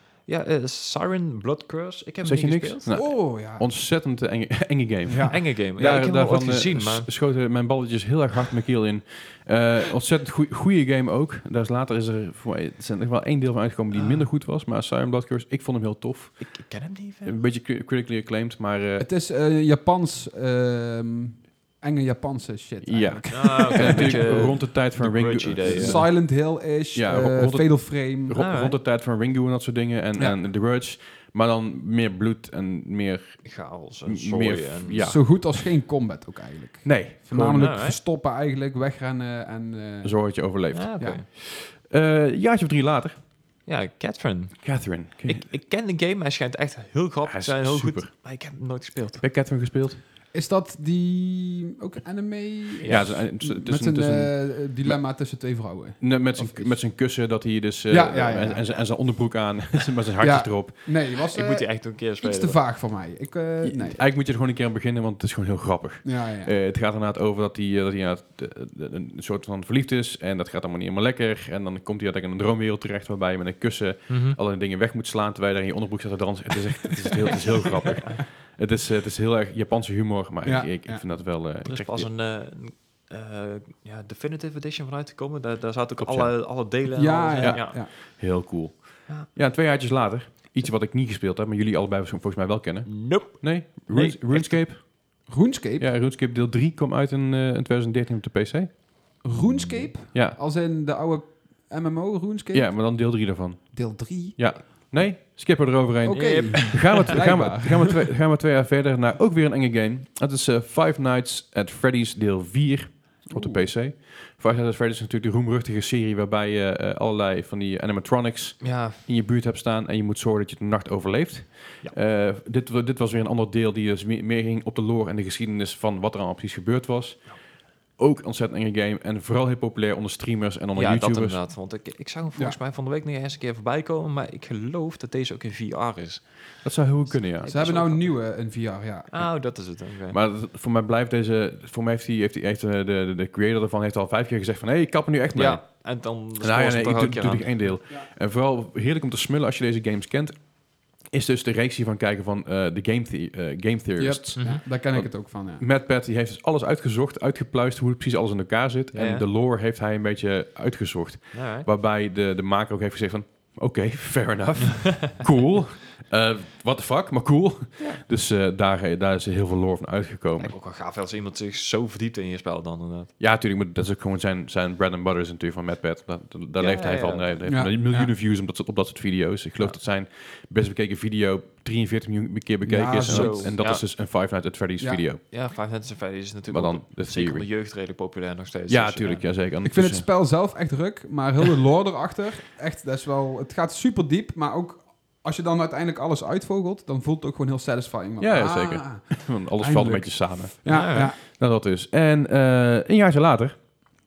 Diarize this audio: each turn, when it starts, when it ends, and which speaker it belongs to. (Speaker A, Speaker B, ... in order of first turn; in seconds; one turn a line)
Speaker A: 0.2-2.9
Speaker B: 2.2-19.1
Speaker C: 2.9-3.7
Speaker C: 5.1-6.0
Speaker A: 5.3-7.2
Speaker A: 16.4-17.4
Speaker C: 19.0-24.5
Speaker B: 22.8-35.7
Speaker A: 23.3-26.1
Speaker C: 25.6-28.4
Speaker A: 28.3-28.8
Speaker C: 30.1-30.4
Speaker A: 33.4-35.2
Speaker C: 35.0-41.2
Speaker B: 36.8-37.8
Speaker A: 37.5-38.0
Speaker B: 40.0-43.3
Speaker A: 40.7-41.2
Speaker A: 43.6-49.2
Speaker B: 44.6-45.5
Speaker B: 47.2-48.5
Speaker B: 49.2-50.0
Speaker C: 50.3-57.3
Speaker A: 52.8-53.2
Speaker B: 52.9-60.8
Speaker C: 57.9-58.7
Speaker C: 60.2-64.0
Speaker A: 60.9-62.7
Speaker B: 63.6-82.1
Speaker C: 66.0-66.5
Speaker A: 74.1-74.4
Speaker A: 77.8-78.1
Speaker C: 80.4-81.1
Speaker A: 81.4-88.1
Speaker B: 86.0-86.4
Speaker C: 86.9-87.9
Speaker B: 87.4-95.3
Speaker A: 89.1-89.8
Speaker A: 92.9-94.7
Speaker C: 94.9-95.9
Speaker B: 95.8-100.4
Speaker C: 99.2-104.9
Speaker B: 102.5-131.4
Speaker C: 106.0-108.0
Speaker A: 106.2-107.2
Speaker C: 113.3-113.7
Speaker A: 118.6-119.0
Speaker A: 130.7-138.4
Speaker B: 136.6-137.5
Speaker C: 137.5-139.1
Speaker A: 139.1-140.2
Speaker B: 139.2-170.6
Speaker A: 145.3-147.8
Speaker C: 154.0-155.6
Speaker A: 154.4-154.6
Speaker A: 158.9-159.2
Speaker A: 161.3-161.7
Speaker A: 170.4-173.1
Speaker B: 173.2-185.2
Speaker A: 176.6-178.1
Speaker C: 177.4-177.9
Speaker C: 182.6-183.6
Speaker A: 183.1-183.8
Speaker C: 184.8-185.1
Speaker A: 185.3-189.3
Speaker B: 186.5-187.5
Speaker B: 188.7-190.1
Speaker C: 189.6-201.2
Speaker B: 198.2-203.7
Speaker A: 200.7-201.1